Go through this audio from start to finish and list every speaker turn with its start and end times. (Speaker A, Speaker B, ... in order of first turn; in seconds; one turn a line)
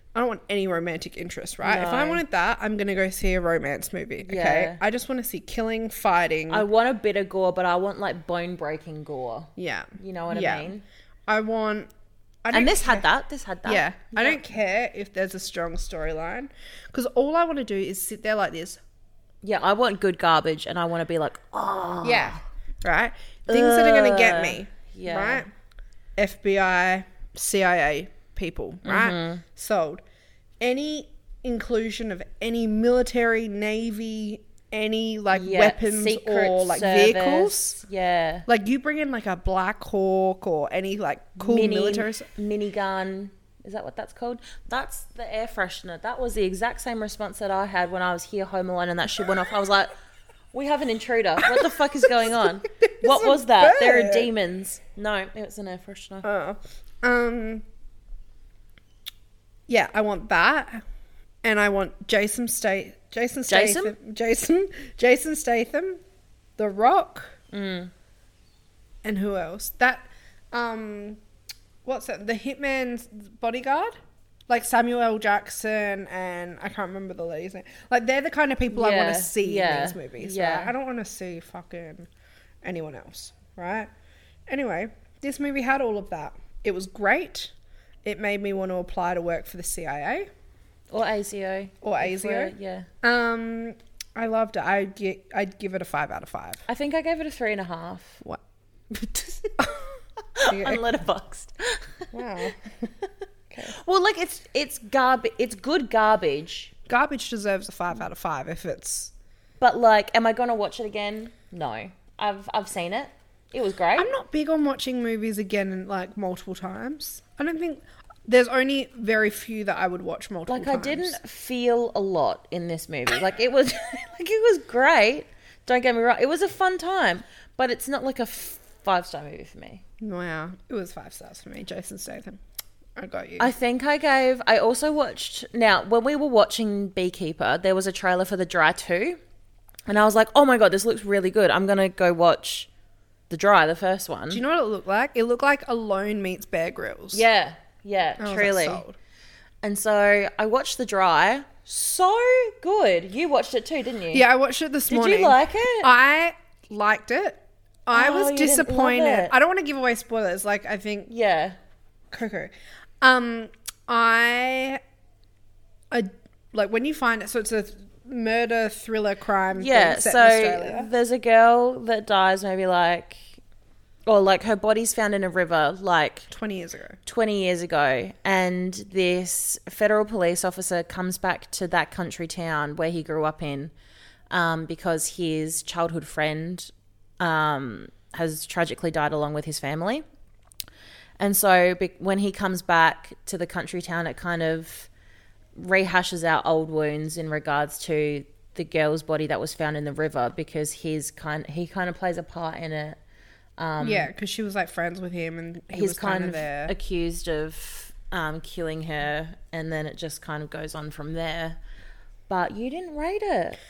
Speaker A: 0.1-6.7
Speaker B: 1.6-2.2
Speaker B: 4.2-4.8
Speaker B: 6.5-10.8
Speaker A: 9.6-10.7
Speaker A: 11.3-11.9
Speaker A: 12.4-13.1
Speaker B: 12.5-14.4
Speaker A: 13.7-18.8
Speaker B: 19.4-22.4
Speaker A: 22.0-25.5
Speaker B: 23.5-25.4
Speaker A: 26.2-30.0
Speaker B: 28.8-29.4
Speaker A: 30.6-37.8
Speaker B: 35.3-38.5
Speaker A: 38.5-42.3
Speaker B: 41.4-49.9
Speaker B: 50.5-56.2
Speaker A: 51.4-52.3
Speaker A: 52.8-54.3
Speaker A: 56.2-57.6
Speaker A: 59.7-60.8
Speaker A: 61.4-66.0
Speaker B: 63.5-63.9
Speaker A: 66.6-67.4
Speaker B: 67.5-67.9
Speaker A: 69.0-71.2
Speaker A: 71.8-74.0
Speaker A: 74.5-82.1
Speaker B: 78.7-80.7
Speaker A: 82.6-83.9
Speaker A: 84.5-87.5
Speaker A: 88.0-90.3
Speaker B: 90.9-92.9
Speaker A: 91.8-96.6
Speaker B: 96.7-98.2
Speaker B: 98.9-99.8
Speaker B: 100.3-102.1
Speaker A: 100.5-100.8
Speaker A: 102.1-102.9
Speaker A: 103.5-103.7
Speaker B: 103.6-106.7
Speaker A: 106.9-109.1
Speaker B: 109.6-114.1
Speaker A: 114.0-121.2
Speaker B: 120.5-129.8
Speaker A: 130.0-132.4
Speaker A: 132.9-133.5
Speaker B: 133.4-139.2
Speaker B: 139.9-142.7
Speaker B: 143.3-144.4
Speaker A: 144.3-147.2
Speaker B: 147.1-148.8
Speaker A: 148.2-148.9
Speaker B: 149.6-154.2
Speaker A: 154.1-161.1
Speaker B: 154.9-155.9
Speaker B: 157.9-159.3
Speaker B: 161.1-161.6
Speaker A: 162.1-164.8
Speaker A: 165.9-170.9
Speaker B: 169.6-173.2
Speaker B: 174.1-176.3
Speaker A: 176.3-177.0
Speaker B: 177.1-183.7
Speaker B: 184.3-190.0
Speaker B: 191.2-194.9
Speaker B: 195.5-203.0
Speaker B: 203.6-204.1
Speaker A: 203.8-206.7
Speaker B: 205.7-211.6
Speaker B: 212.3-213.6